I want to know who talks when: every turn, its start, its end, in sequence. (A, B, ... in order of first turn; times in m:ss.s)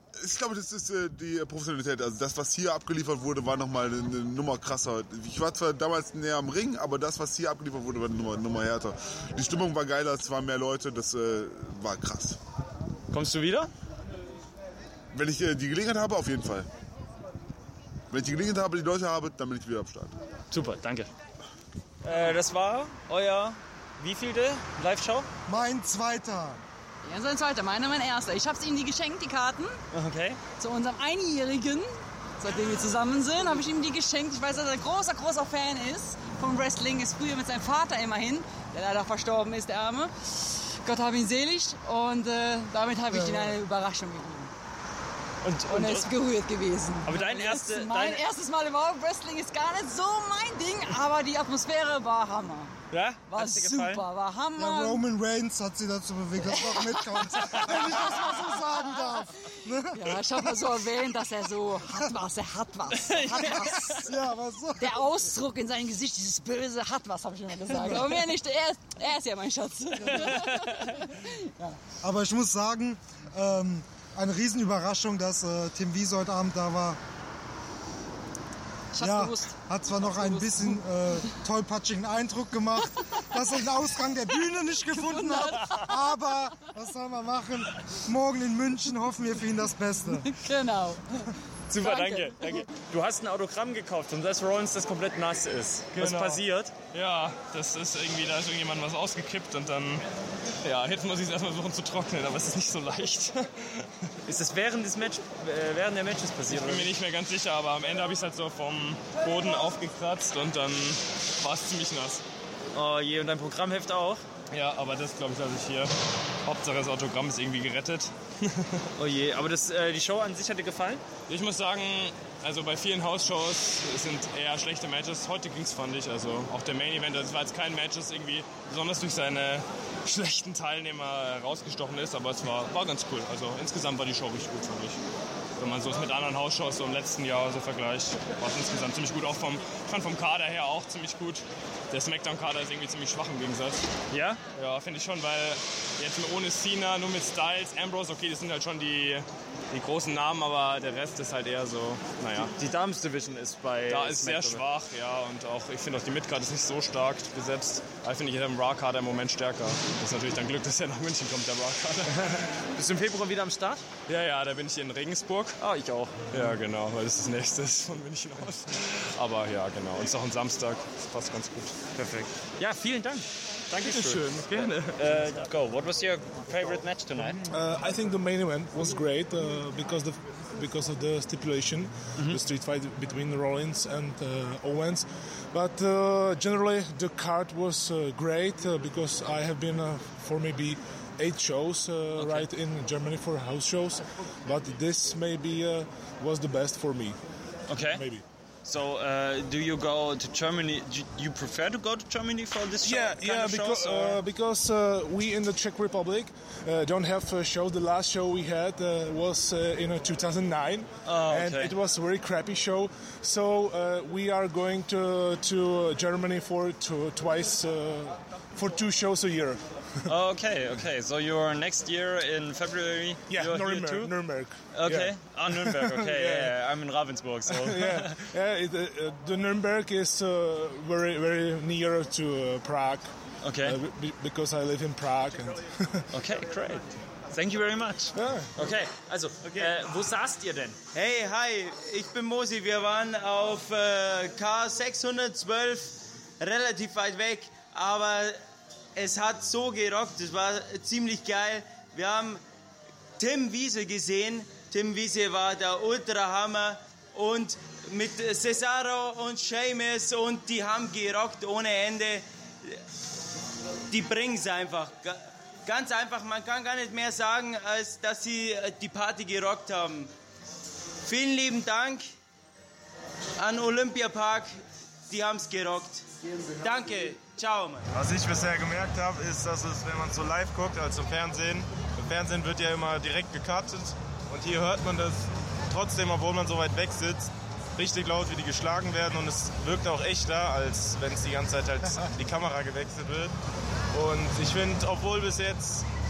0:00.2-0:12.4 A
0:13.1-0:13.7 B
0:15.1-0:16.7 A
0:18.1-0:20.1 A
0:20.5-0:21.1 B
0:22.0-0:25.3 B
0:25.5-0:26.6 C
0:27.0-0:29.8 D
0:29.9-0:30.4 B
0:30.5-0:44.5 D
0:43.1-0:43.5 C
0:45.4-0:46.1 B
0:45.6-0:52.7 D
0:47.0-0:48.2 B
0:52.9-0:54.0 B
0:53.3-0:55.0 D
0:54.6-1:00.3 C
0:56.4-1:04.1 D
1:03.3-1:04.9 C
1:04.8-1:11.8 D
1:07.7-1:08.3 C
1:12.0-1:17.0 C
1:18.9-1:21.4 D
1:19.0-1:30.3 C
1:24.0-1:26.7 D
1:30.1-1:32.6 D
1:31.7-1:36.8 B
1:36.1-1:36.4 E
1:36.9-1:40.0 E
1:40.6-1:43.5 E
1:44.3-1:46.9 B
1:46.4-1:52.2 E
1:52.7-1:54.2 B
1:54.5-1:58.8 E
1:59.0-2:01.0 B
2:01.3-2:15.0 E
2:15.6-2:23.9 E
2:24.1-2:24.4 B
2:24.5-2:32.5 E
2:32.4-2:34.6 B
2:33.9-2:42.4 E
2:42.8-2:43.8 B
2:44.1-2:45.6 E
2:45.6-2:46.6 B
2:46.3-2:52.3 E
2:52.0-2:57.4 B
2:53.8-2:55.1 E
2:57.5-3:17.2 F
3:12.2-3:12.5 B
3:17.7-3:18.0 B
3:17.8-3:18.2 F
3:18.6-3:24.2 B
3:22.8-3:39.7 F
3:31.0-3:31.7 B
3:40.1-3:44.2 B
3:43.3-3:46.6 F
3:44.7-3:48.2 B
3:47.5-3:56.0 F
3:53.4-3:53.8 B
3:56.1-4:00.8 B
3:58.1-3:58.5 F
4:00.9-4:08.4 G
4:09.0-4:12.4 G
4:13.2-4:22.8 G
4:23.9-4:30.1 G
4:31.0-4:32.1 G
4:33.4-4:34.6 G
4:35.1-4:36.0 G
4:36.6-4:37.8 G
4:37.9-4:53.3 H
4:53.9-4:55.8 H